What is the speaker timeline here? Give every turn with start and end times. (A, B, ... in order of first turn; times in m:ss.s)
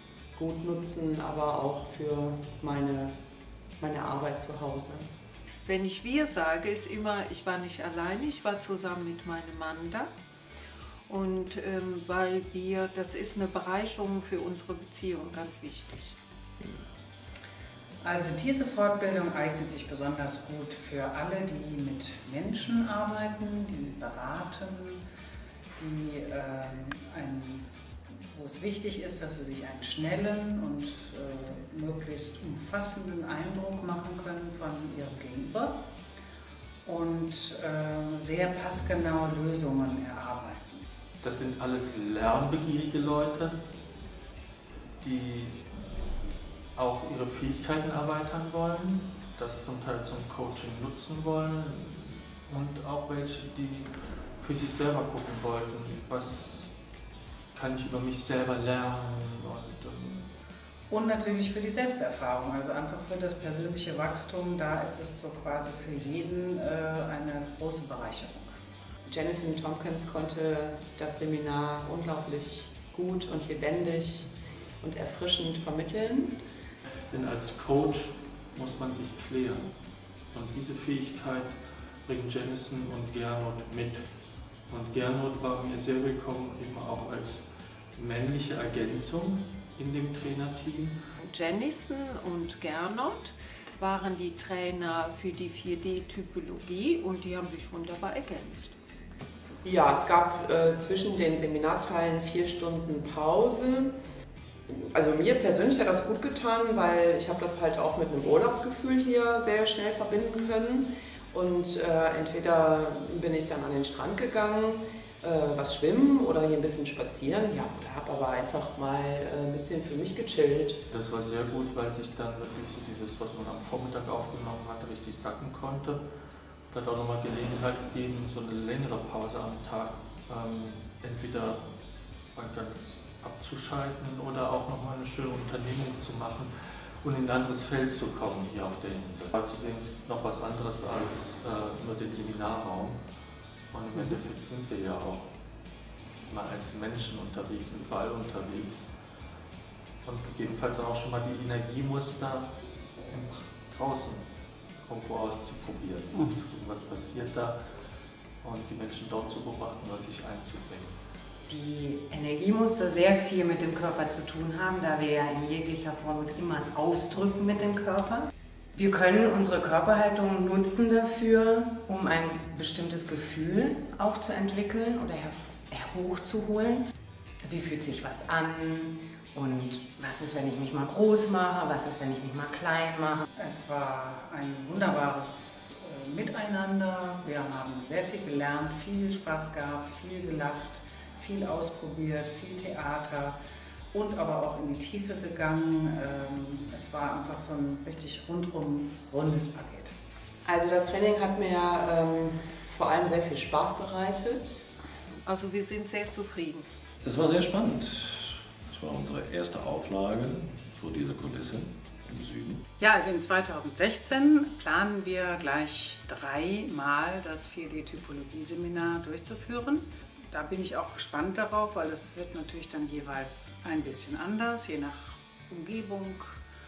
0:00.4-0:03.1 A
0:03.8-0:05.0 A
0:05.7-0:10.1 B
0:11.1-0:16.2 B
0:18.0-0:25.0 C
0:25.8-0:27.7 C
0:28.3-0:35.8 C
0:36.8-0:40.8 C
0:41.2-0:43.6 D
0:45.0-0:45.6 D
0:46.8-0:56.7 D
0:57.5-1:00.3 D
1:00.9-1:08.5 C
1:09.1-1:14.3 A
1:14.8-1:16.4 A
1:17.1-1:19.7 D
1:20.3-1:24.0 D
1:24.7-1:31.0 D
1:31.2-1:38.7 B
1:39.6-1:44.0 A
1:44.7-2:00.8 A
2:00.9-2:06.0 D
2:06.7-2:11.7 D
2:12.4-2:16.5 D
2:17.0-2:23.0 D
2:23.7-2:25.3 D
2:26.3-2:28.9 D
2:30.0-2:32.5 D
2:33.1-2:34.3 D
2:34.8-2:37.6 D
2:38.4-2:40.9 D
2:41.5-2:56.8 E
2:57.4-3:03.2 E
3:03.4-3:13.4 C
3:13.9-3:19.9 C
3:20.4-3:24.6 A
3:25.3-3:26.6 B
3:27.0-3:32.6 F
3:32.8-3:46.4 C